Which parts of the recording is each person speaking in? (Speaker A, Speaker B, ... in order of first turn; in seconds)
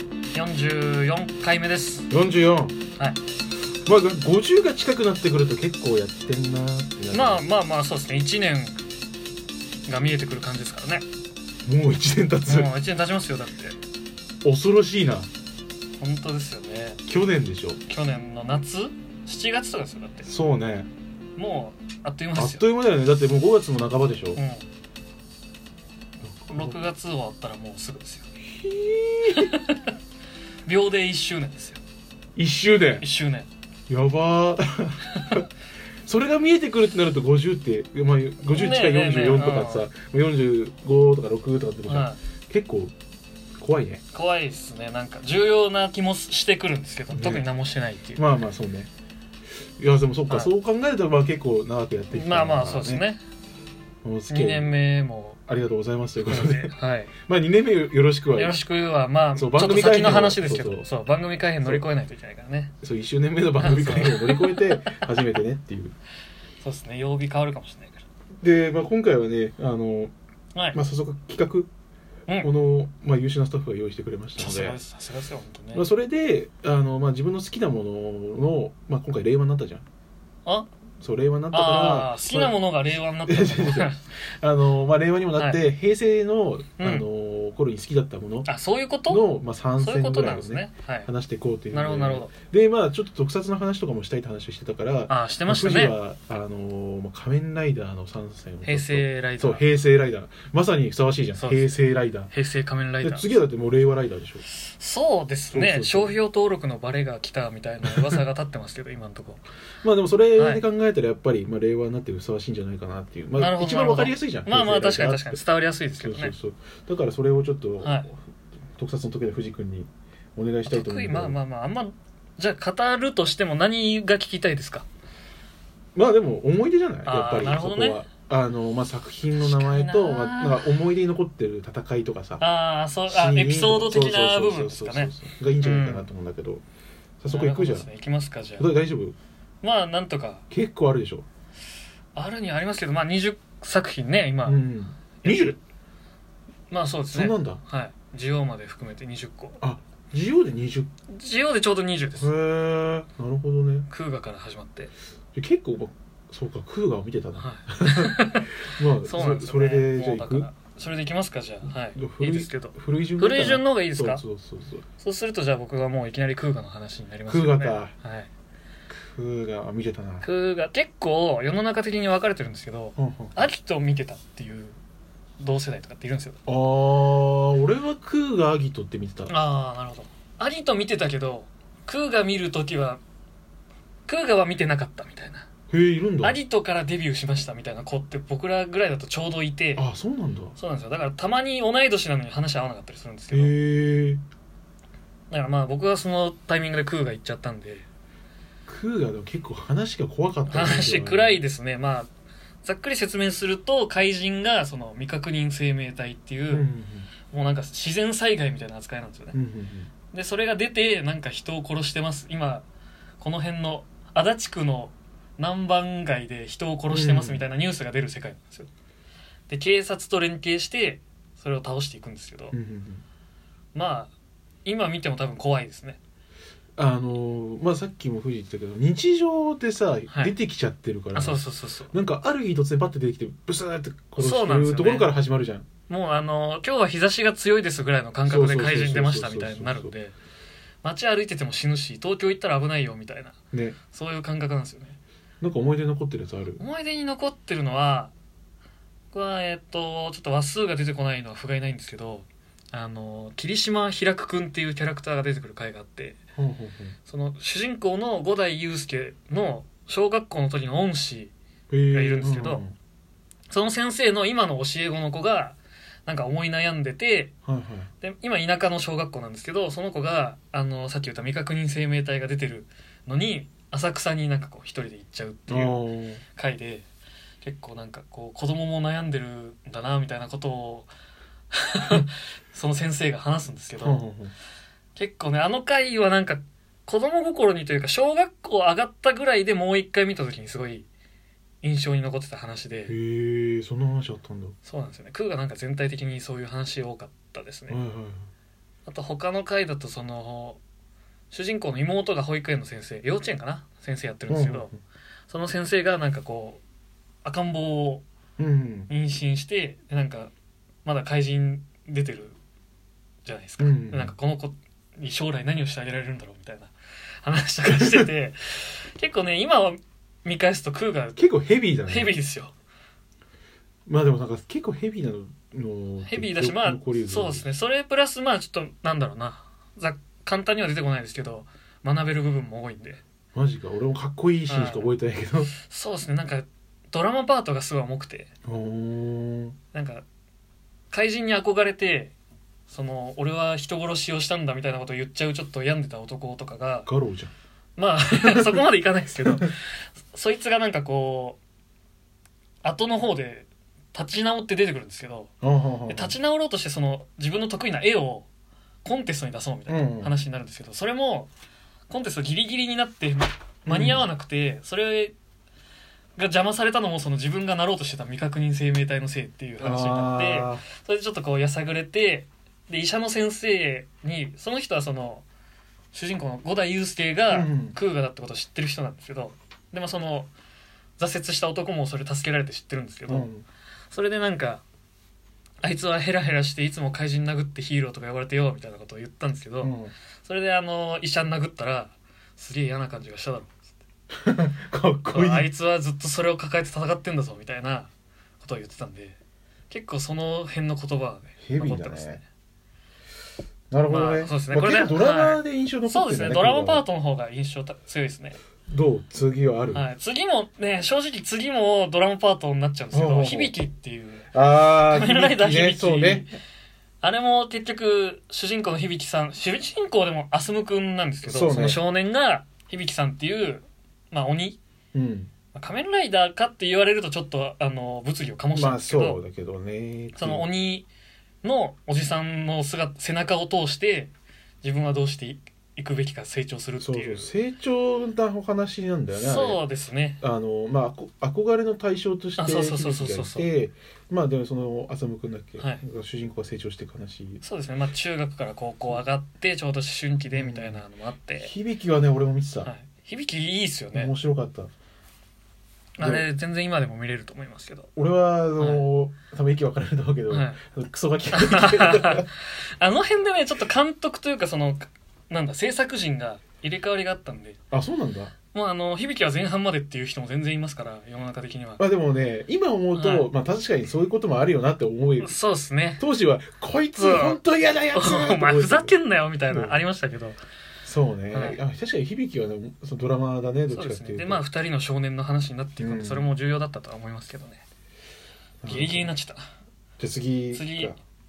Speaker A: 0.3-2.1, 7.1-8.8, 9.9-11.1, 12.5-13.8, 16.0-17.0, 17.9-20.3, 21.4-22.6, 24.4-24.6, 26.5-28.3, 29.3-29.9, 30.7-31.8, 33.0-33.5, 35.1-35.4, 38.5-39.9, 41.9-42.2, 44.1-48.2, 52.1-53.2, 54.3-55.4, 56.2-57.1, 58.4-62.7, 63.6-65.2, 66.6-68.0, 74.4-75.8, 81.5-84.0, 85.4-85.6, 86.8-87.0, 88.5-89.2, 89.8-91.1, 91.7-92.3, 95.1-96.0, 98.6-99.6, 101.4-101.8, 102.3-103.3, 104.5-109.4, 110.4-110.6, 113.4-116.3, 117.8-118.1, 120.7-124.9, 127.1-128.0, 129.4-130.7, 132.4-136.1, 137.3-138.7, 139.6-140.4, 142.2-144.6, 145.2-145.6, 146.7-149.6, 151.1-152.3, 153.9-154.9, 157.4-164.2, 165.0-168.3, 170.2-174.8, 175.4-176.4, 179.3-183.0, 184.1-185.4, 186.2-189.8, 190.6-193.6, 195.3-197.9, 200.5-202.1, 202.6-206.7, 207.3-209.4, 210.1-212.7, 213.2-218.7, 219.5-222.6, 223.7-224.1, 224.7-226.0, 230.1-230.3, 231.1-231.9, 234.2-235.1, 235.9-240.2, 240.8-243.3, 243.9-245.0, 246.6-248.1, 249.1-256.2, 257.1-261.3, 261.9-262.6, 263.5-267.3, 268.0-275.8, 276.4-276.9, 277.4-280.9, 281.5-284.0, 285.0-290.9, 291.6-292.9, 294.6-297.8, 298.9-300.6, 301.3-304.7, 305.3-306.6, 307.2-308.0, 308.9-310.3, 310.9-312.4, 313.2-316.7, 317.2-321.2, 321.9-322.5, 326.0-333.0, 334.5-334.9, 335.6-338.3, 339.7-340.0, 340.9-342.1, 342.7-346.9, 347.8-351.4, 352.6-355.3, 355.9-358.3, 358.8-361.3, 361.9-365.1, 366.2-375.3, 375.9-380.3, 381.0-383.3, 383.9-384.6, 385.6-393.5, 395.1-397.9, 398.4-399.2, 399.7-402.2, 403.9-408.4, 409.7-416.4, 417.0-424.6, 425.5-429.2, 430.2-430.9, 431.4-434.1, 434.6-437.3, 439.1-440.2, 442.4-443.5, 447.4-451.5, 452.6-454.1, 456.0-457.9, 458.6-458.9, 460.3-460.6, 461.3-467.6, 468.5-471.8, 472.9-473.3, 475.2-476.0, 477.0-477.4, 477.9-480.4, 481.3-481.6, 483.7-487.6, 488.7-489.4, 490.5-490.9
Speaker B: 2.1-2.8, 3.9-7.4, 11.7-12.7, 14.4-15.3, 17.1-17.8, 20.2-20.9, 22.4-24.4, 26.2-26.8, 28.5-29.5, 32.4-33.1, 33.9-35.5, 36.1-42.9, 43.6-44.0, 47.1-47.5, 48.2-48.9, 49.8-53.0, 54.0-54.7, 55.5-58.6, 59.4-60.9, 62.8-65.9, 68.4-70.1, 70.7-71.7, 72.4-74.8, 75.7-79.8, 81.0-82.6, 83.3-88.5, 89.1-102.3, 103.0-104.5, 105.5-106.2, 109.8-115.4, 116.0-118.2, 118.8-121.4, 126.0-132.5, 133.1-136.6, 137.2-137.9, 138.6-139.2, 140.5-141.2, 144.5-145.6, 147.1-147.6, 149.6-150.9, 152.2-153.9, 155.3-160.5, 161.9-164.8, 167.3-167.9, 168.9-170.3, 173.0-173.4, 176.5-179.3, 185.7-186.4, 189.8-190.6, 193.3-194.2, 198.7-201.4, 206.5-207.1, 209.3-209.9, 216.9-217.5, 222.5-223.0, 226.8-235.7, 238.3-239.9, 243.5-243.8, 245.4-246.6, 256.4-257.0, 261.7-262.7, 267.5-267.9, 275.5-276.2, 283.8-284.3, 292.9-294.6, 297.7-298.3, 304.3-304.8, 308.4-308.9, 313.6-314.1, 317.7-318.1, 321.2-322.1, 323.9-327.5, 333.4-335.5, 338.5-339.6, 346.9-347.3, 348.1-348.6, 349.2-349.5, 355.4-356.2, 359.7-360.1, 363.7-364.1, 369.6-370.6, 377.3-377.8, 383.1-383.5, 389.6-389.9, 394.1-395.5, 401.4-402.2, 403.7-406.9, 408.7-409.9, 412.9-413.6, 414.3-416.3, 421.2-421.8, 424.9-425.3, 428.5-430.5, 436.8-439.6, 440.2-447.4, 450.3-450.8, 451.4-452.7, 453.9-454.7, 456.0-456.3, 458.0-462.3, 467.7-468.3, 471.8-475.4, 476.0-479.0, 479.5-479.8, 480.9-484.4, 485.8-486.3, 488.6-489.1, 490.0-491.0